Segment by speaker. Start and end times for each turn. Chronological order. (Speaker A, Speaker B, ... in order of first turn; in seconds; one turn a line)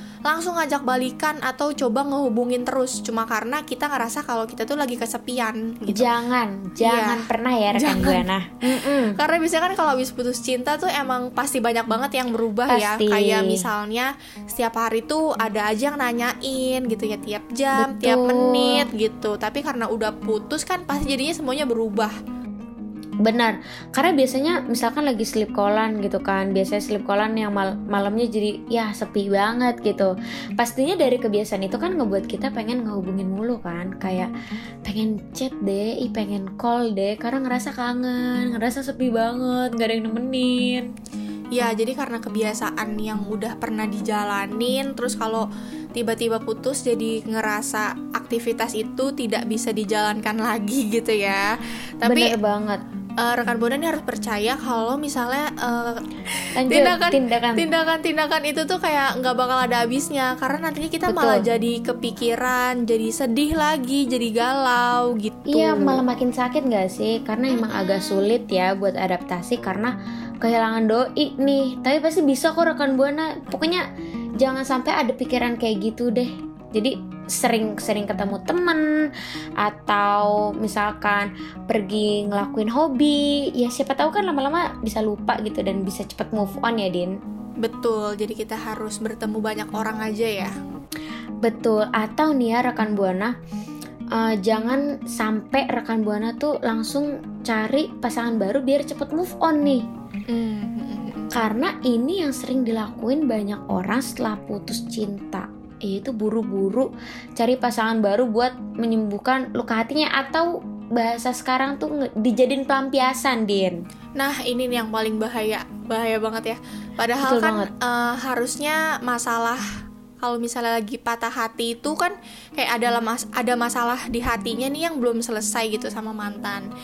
Speaker A: 0.2-6.1
Speaker B: 5.9-9.2
Speaker A: 6.8-7.2
Speaker A: 7.8-8.2
Speaker A: 9.2-22.1
Speaker B: 12.7-13.6
Speaker B: 17.8-18.9
Speaker B: 23.2-34.3
Speaker B: 34.8-40.9
Speaker A: 41.5-52.3
Speaker B: 52.0-52.8
Speaker A: 53.2-66.0
Speaker B: 56.6-57.7
Speaker B: 61.1-61.4
Speaker B: 65.5-73.8
Speaker A: 67.5-68.2
Speaker B: 74.4-87.1
Speaker A: 87.6-90.5
Speaker B: 91.4-93.3
Speaker B: 94.1-99.8
Speaker A: 100.3-101.3
Speaker B: 101.3-113.8
Speaker A: 114.2-119.6
Speaker B: 117.2-117.7
Speaker A: 120.2-126.7